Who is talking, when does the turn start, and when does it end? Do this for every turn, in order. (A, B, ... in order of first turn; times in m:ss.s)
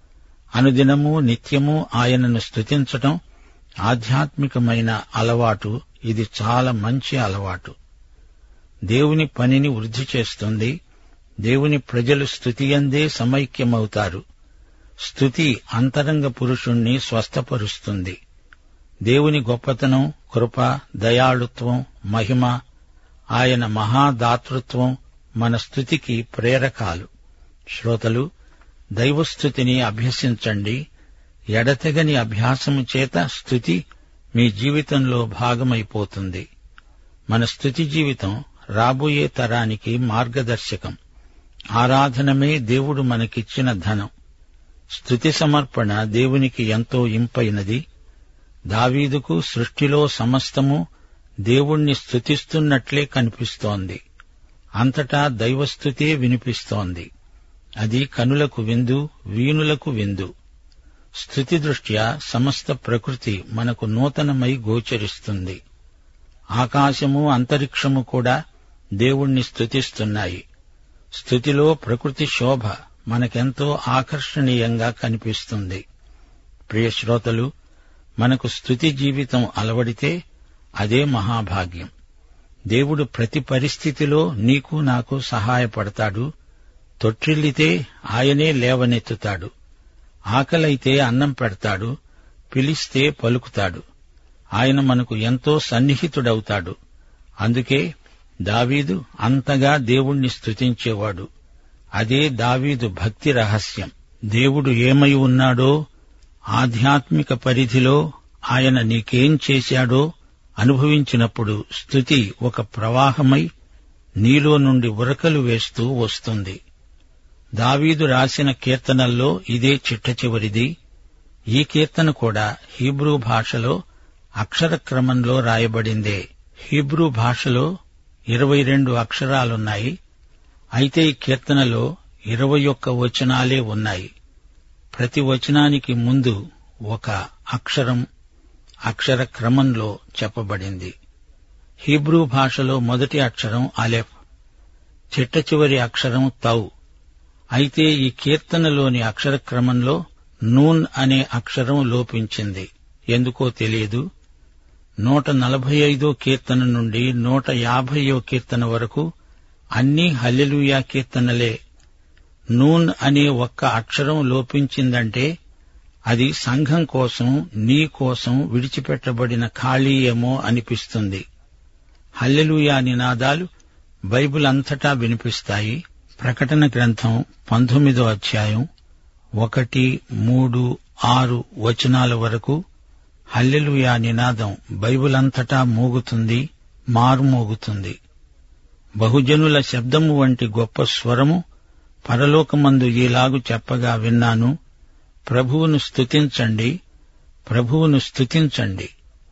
0:00.6-0:03.2 A
0:03.8-0:07.7 A
0:08.9-0:10.7 A
0:11.4-0:14.2 A
0:15.0-0:18.2 A
0:19.0-0:22.5 A
0:23.4-0:27.1 A
0:27.7-0:28.2 A
0:29.0-0:30.8 A
0:31.5-0:33.8 A
0:34.3-0:36.4 A
0:37.3-0:41.0 A
0:41.8-0:44.1 A
0:44.9-0:47.8 A
0:48.7-0:50.8 A
0:51.4-0:54.0 A
0:54.8-0:57.1 A
0:57.8-1:00.3 A
1:01.2-1:05.6 A
1:06.6-1:08.4 A
1:09.0-1:10.4 A
1:11.2-1:15.8 A
1:16.7-1:17.5 A
1:18.2-1:20.1 A
1:20.8-1:21.9 A
1:22.7-1:26.3 A
1:27.0-1:29.5 A
1:30.3-1:31.9 A
1:32.5-1:33.8 A
1:34.6-1:36.8 A
1:37.4-1:37.8 A
1:38.4-1:41.2 A
1:42.0-1:45.7 A
1:46.5-1:48.0 A
1:48.5-1:50.0 A
1:50.6-1:53.4 A
1:54.2-1:56.6 A
1:57.6-2:00.7 A
2:01.5-2:03.8 A
2:04.4-2:07.6 A
2:08.3-2:09.9 A
2:10.8-2:14.1 A
2:14.9-2:16.4 A
2:16.9-2:18.0 A
2:18.9-2:20.9 A
2:21.8-2:24.1 A
2:25.1-2:26.6 A
2:27.6-2:30.0 A
2:30.5-2:34.0 A
2:35.0-2:39.0 A
2:39.8-2:41.5 A
2:42.6-2:45.3 A
2:46.1-2:51.2 A
2:52.2-2:53.4 A
2:54.1-2:58.6 A
2:59.4-3:02.6 A
3:03.3-3:08.0 A
3:09.0-3:11.4 A
3:12.0-3:14.5 A
3:15.3-3:16.7 A
3:17.5-3:18.9 A